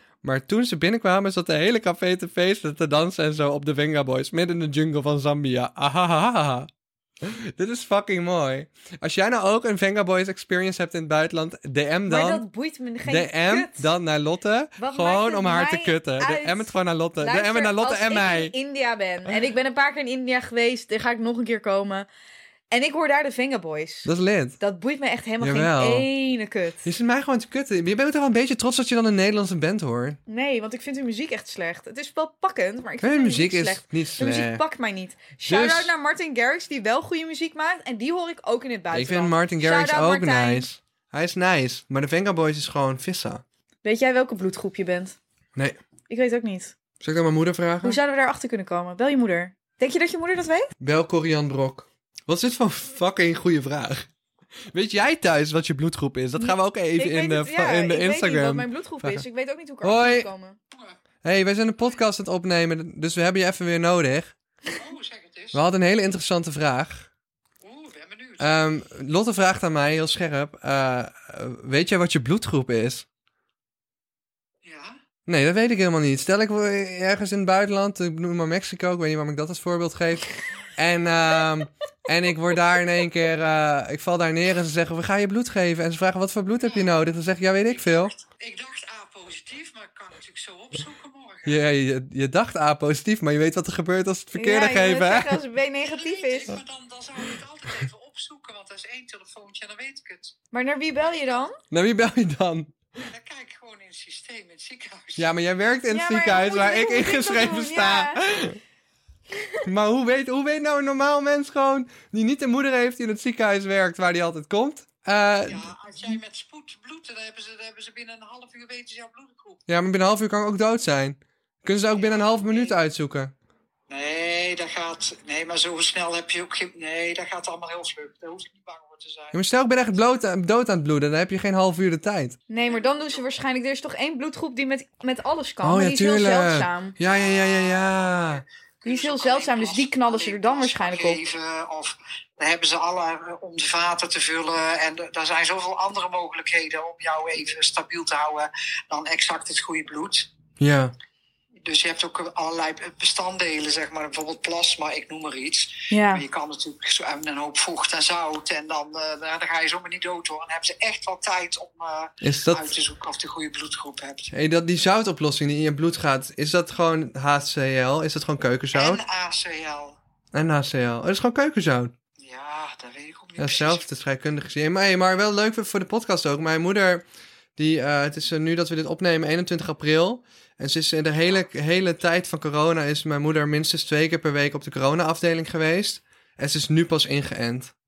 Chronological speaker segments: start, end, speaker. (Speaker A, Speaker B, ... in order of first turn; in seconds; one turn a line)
Speaker A: 0.2-6.7
Speaker A: 7.2-12.4
Speaker B: 12.1-13.8
Speaker A: 13.1-18.5
Speaker B: 14.8-22.1
Speaker B: 22.7-26.9
Speaker A: 24.0-24.6
Speaker A: 25.4-26.1
Speaker A: 26.8-30.2
Speaker B: 30.3-40.7
Speaker A: 33.0-34.6
Speaker A: 35.5-35.9
Speaker A: 38.9-43.4
Speaker B: 43.8-45.1
Speaker B: 46.1-46.7
Speaker A: 47.0-48.0
Speaker B: 47.8-50.7
Speaker A: 50.8-54.1
Speaker A: 54.7-59.2
Speaker B: 56.4-60.6
Speaker A: 59.8-60.3
Speaker A: 61.2-64.3
Speaker C: 64.7-65.6
Speaker A: 65.5-67.1
Speaker C: 67.6-68.5
Speaker A: 68.4-73.0
Speaker C: 74.6-75.0
Speaker A: 75.2-88.1
Speaker C: 86.6-86.9
Speaker C: 87.7-91.6
Speaker A: 91.5-95.4
Speaker B: 94.3-96.6
Speaker C: 95.7-100.3
Speaker B: 100.5-101.6
Speaker A: 101.7-102.7
Speaker C: 103.1-105.3
Speaker A: 105.2-108.6
Speaker B: 105.9-108.2
Speaker A: 109.6-115.7
Speaker C: 115.5-119.6
Speaker A: 119.7-123.3
Speaker C: 121.9-122.8
Speaker C: 123.9-129.4
Speaker A: 129.3-132.4
Speaker B: 132.5-137.0
Speaker C: 132.7-133.3
Speaker A: 135.6-138.4
Speaker C: 137.0-150.3
Speaker B: 138.8-141.2
Speaker A: 150.6-150.9
Speaker C: 151.6-164.3
Speaker B: 155.9-156.2
Speaker A: 162.2-162.7
Speaker A: 164.3-169.0
Speaker C: 168.7-170.0
Speaker A: 170.3-171.9
Speaker C: 172.2-173.9
Speaker A: 173.4-177.0
Speaker A: 177.6-187.7